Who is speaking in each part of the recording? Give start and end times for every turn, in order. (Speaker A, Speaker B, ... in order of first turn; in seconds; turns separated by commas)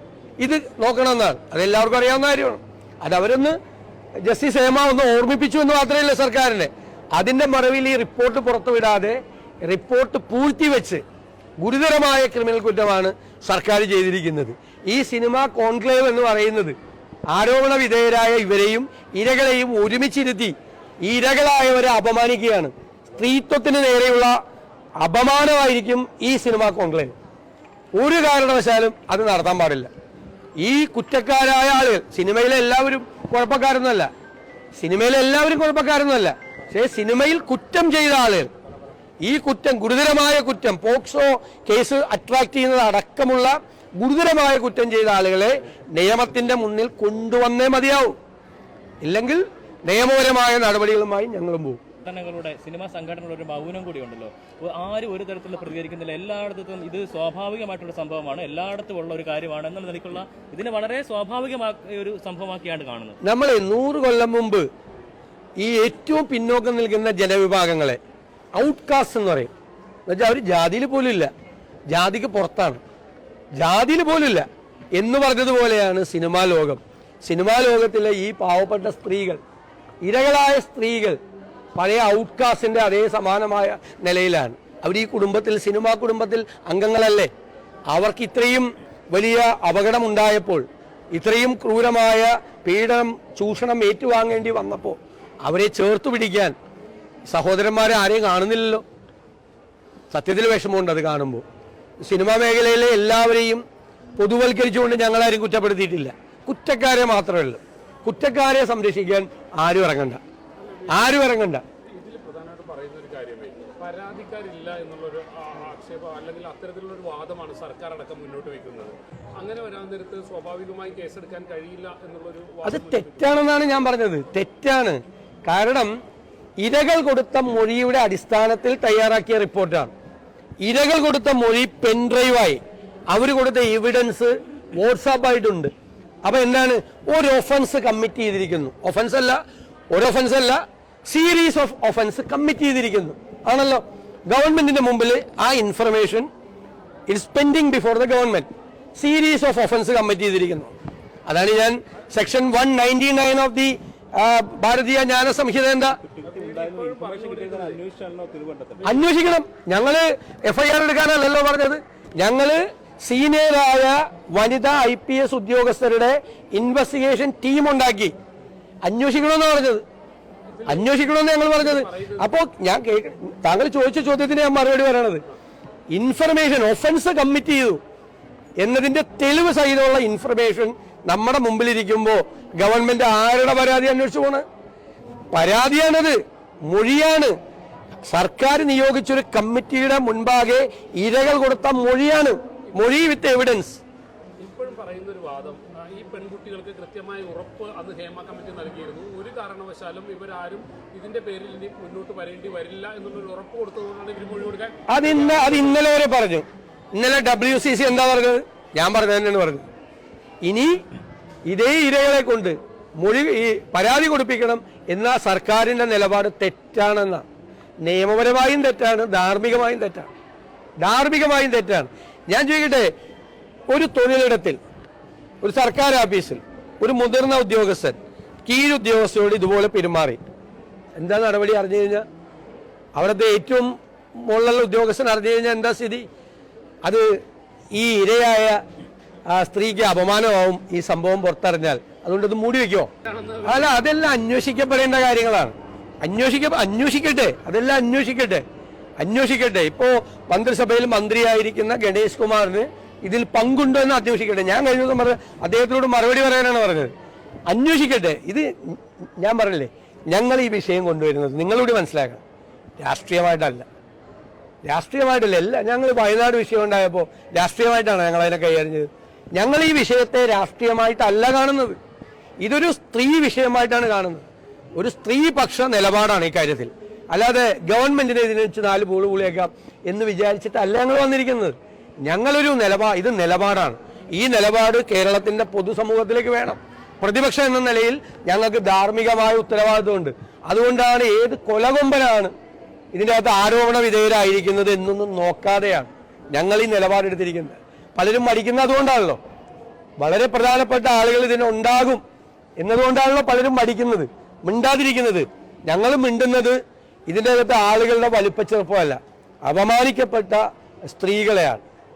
Speaker A: 0.4-3.6, Speaker A: 4.2-11.0, Speaker A: 11.6-16.8, Speaker A: 17.3-24.4, Speaker A: 25.0-27.1, Speaker A: 28.0-29.9, Speaker A: 30.6-34.1, Speaker A: 34.8-38.5, Speaker A: 39.2-48.2, Speaker A: 49.0-51.8, Speaker B: 52.0-63.2, Speaker A: 63.2-64.7, Speaker A: 65.6-68.0, Speaker A: 68.5-69.5, Speaker A: 70.1-71.3, Speaker A: 71.9-72.8, Speaker A: 73.6-79.4, Speaker A: 80.0-81.2, Speaker A: 81.8-87.3, Speaker A: 87.9-96.5, Speaker A: 97.3-98.8, Speaker A: 100.1-101.4, Speaker A: 102.0-103.6, Speaker A: 104.2-110.2, Speaker C: 110.6-111.0, Speaker A: 110.9-111.6, Speaker C: 111.9-123.4, Speaker A: 122.6-125.9, Speaker A: 126.6-129.9, Speaker A: 130.6-135.7, Speaker A: 136.2-139.4, Speaker A: 139.9-146.3, Speaker A: 147.1-150.7, Speaker A: 151.3-156.0, Speaker B: 156.2-158.9, Speaker C: 156.2-157.8, Speaker A: 158.8-168.2, Speaker A: 168.9-169.8, Speaker C: 170.5-172.3, Speaker A: 170.7-175.2, Speaker A: 175.9-177.8, Speaker A: 178.6-184.4, Speaker A: 185.3-187.3, Speaker A: 188.1-193.8, Speaker C: 194.4-205.8, Speaker A: 204.9-209.6, Speaker A: 210.4-210.7, Speaker A: 211.5-217.2, Speaker A: 217.8-220.1, Speaker A: 220.8-222.9, Speaker A: 223.7-224.6, Speaker A: 225.4-230.2, Speaker A: 231.0-232.1, Speaker A: 233.0-233.7, Speaker A: 234.3-236.1, Speaker A: 236.8-237.2, Speaker A: 237.7-238.6, Speaker A: 239.3-242.9, Speaker C: 243.1-243.7, Speaker A: 243.4-248.4, Speaker A: 249.0-256.9, Speaker A: 257.5-262.2, Speaker A: 262.8-263.7, Speaker A: 264.7-271.8, Speaker A: 272.4-274.2, Speaker A: 274.8-281.6, Speaker A: 282.1-292.3, Speaker A: 292.9-299.2, Speaker A: 300.0-302.0, Speaker A: 302.6-306.6, Speaker A: 307.1-311.6